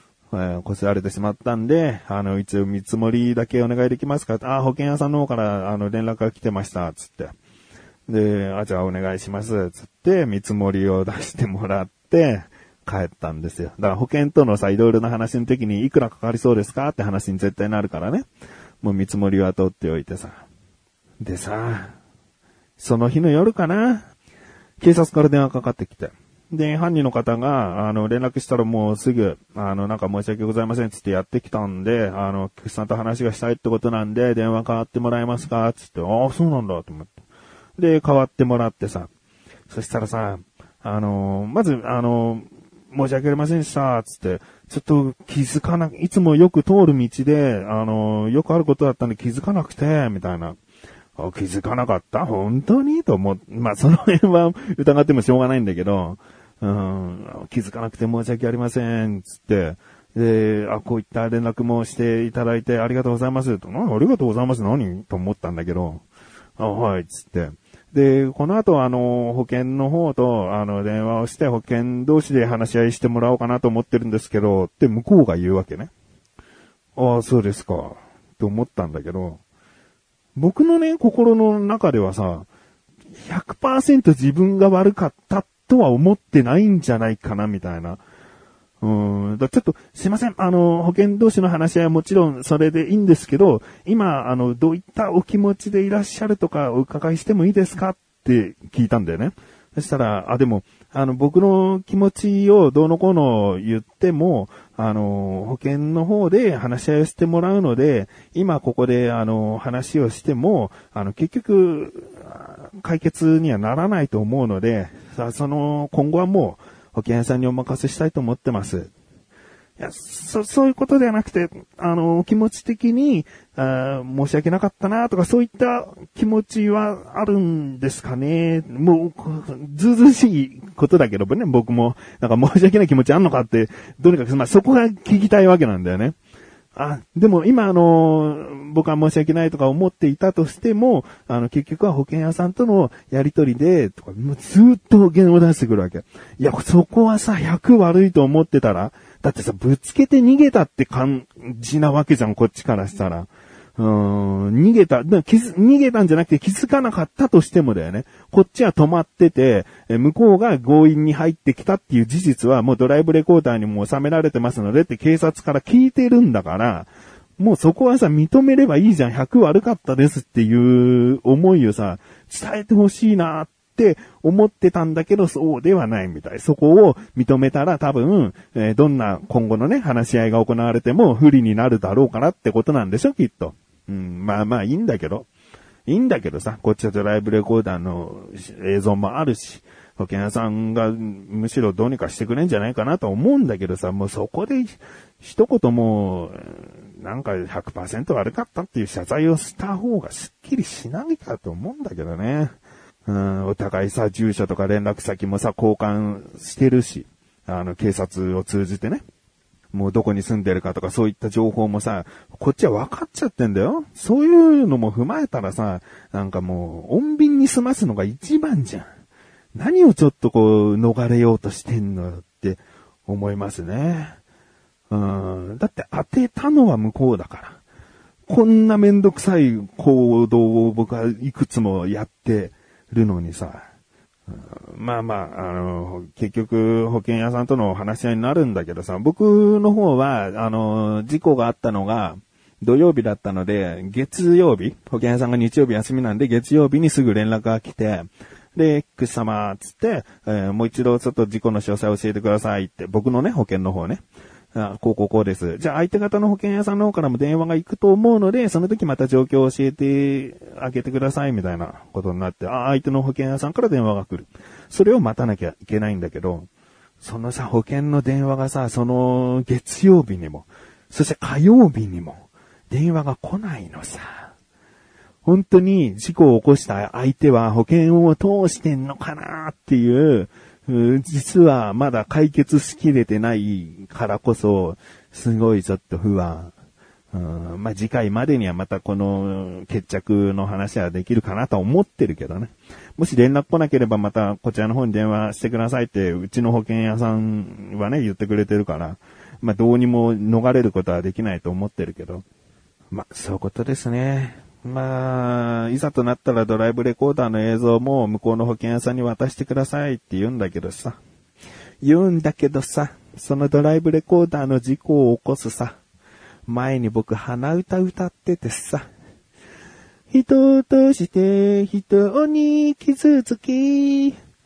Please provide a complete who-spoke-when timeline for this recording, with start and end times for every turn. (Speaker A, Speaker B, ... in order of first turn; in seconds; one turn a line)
Speaker A: 0.3-7.3
Speaker A: 8.1-18.3
Speaker A: 18.8-20.5
Speaker A: 21.2-22.0
Speaker A: 22.8-24.1
Speaker A: 24.8-37.1
Speaker A: 37.8-39.1
Speaker A: 39.7-50.6
Speaker A: 51.2-66.0
Speaker A: 66.6-75.9
Speaker A: 77.0-79.4
Speaker A: 80.4-82.5
Speaker A: 83.2-88.0
Speaker A: 88.8-118.9
Speaker A: 119.8-136.2
Speaker A: 136.8-185.3
Speaker A: 185.9-209.0
Speaker A: 209.7-218.9
Speaker A: 219.6-224.2
Speaker A: 224.9-227.6
Speaker A: 228.3-233.7
Speaker A: 234.3-254.0
Speaker A: 254.5-266.5
Speaker A: 267.0-274.3
Speaker A: 275.2-286.5
Speaker A: 287.1-302.2
Speaker A: 302.9-311.0
Speaker A: 311.8-315.8
Speaker A: 316.5-318.9
Speaker A: 320.1-324.2